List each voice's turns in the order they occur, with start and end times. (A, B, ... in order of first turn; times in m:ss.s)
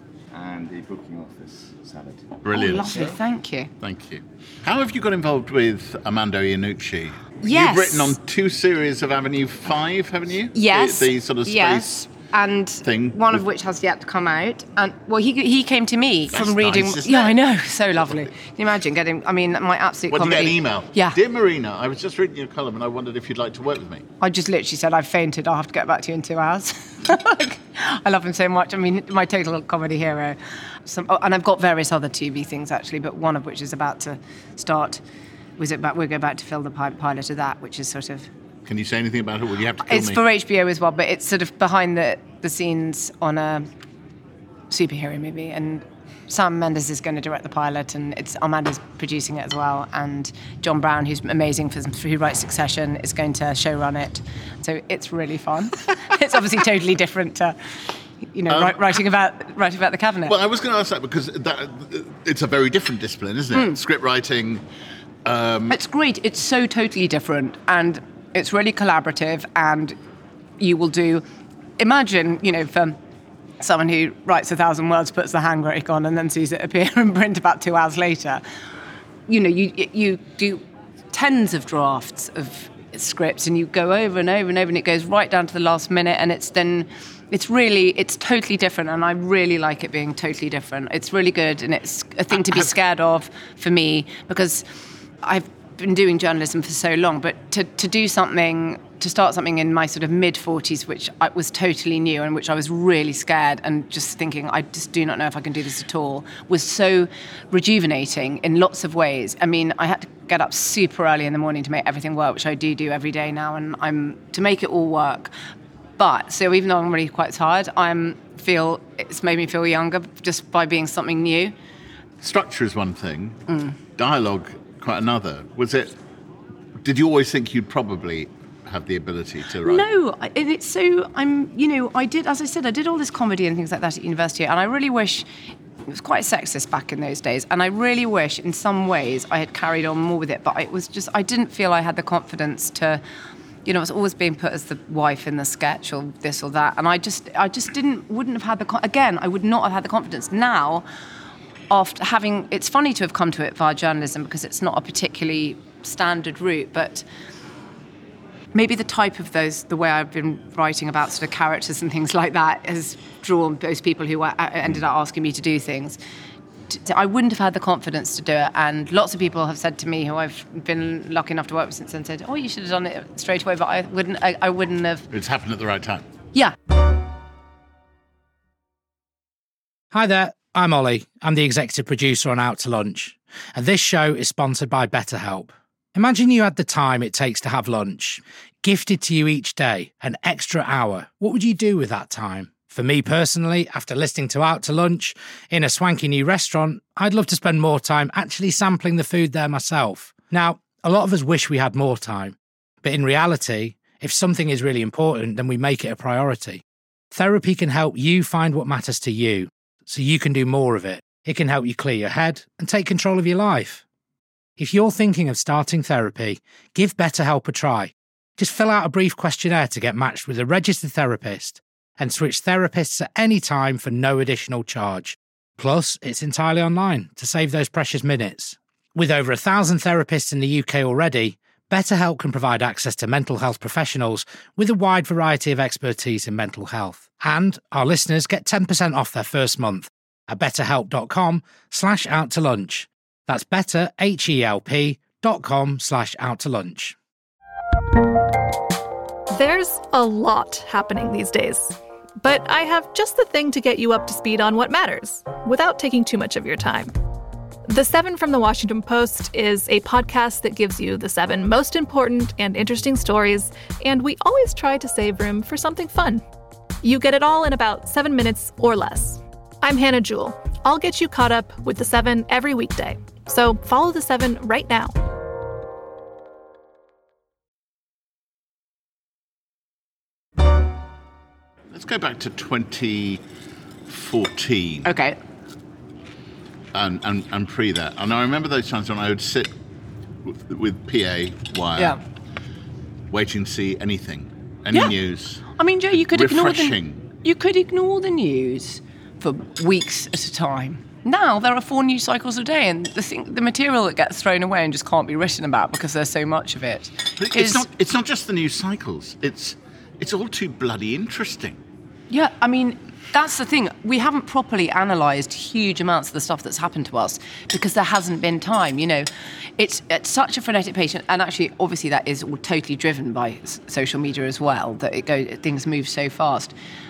0:00.3-0:03.2 A
0:02.4-0:03.2 B
0:02.5-0:03.7 C
0:03.8-0:12.0 B
0:07.4-0:08.2 C
0:10.5-0:21.2 C
0:12.8-0:13.4 B
0:16.3-0:17.4 B
0:20.1-0:24.0 B
0:24.2-0:35.0 C
0:35.6-0:38.3 C
0:38.7-0:40.2 B
0:39.8-0:43.7 C
0:44.7-0:57.6 C
0:58.2-1:00.4 C
0:58.5-0:58.8 B
1:00.3-1:04.6 B
1:03.5-1:03.8 C
1:05.2-1:05.8 B
1:05.7-1:10.0 C
1:10.6-1:11.2 C
1:11.8-1:13.0 C
1:13.6-1:18.4 C
1:19.3-1:34.7 C
1:35.2-1:55.3 C
1:56.0-2:01.5 C
2:02.2-2:03.4 B
2:03.5-2:03.8 C
2:04.0-2:05.9 B
2:06.8-2:09.9 B
2:09.6-2:15.3 C
2:15.9-2:23.0 C
2:23.6-2:30.8 C
2:31.7-2:37.0 C
2:38.5-2:46.0 C
2:46.7-2:55.0 C
2:55.1-2:56.1 B
2:59.9-3:33.8 D
3:34.6-4:07.0 D
4:09.3-4:16.9 E
4:17.7-4:26.2 E
4:26.8-4:34.9 E
4:41.7-4:43.2 B
4:43.9-4:44.9 B
4:44.8-4:45.2 C
4:46.7-4:49.5 B
4:50.2-4:52.0 B
4:53.1-4:55.5 B
4:55.5-5:07.6 C
4:56.0-4:57.1 B
5:07.2-5:11.6 B
5:12.1-5:26.5 C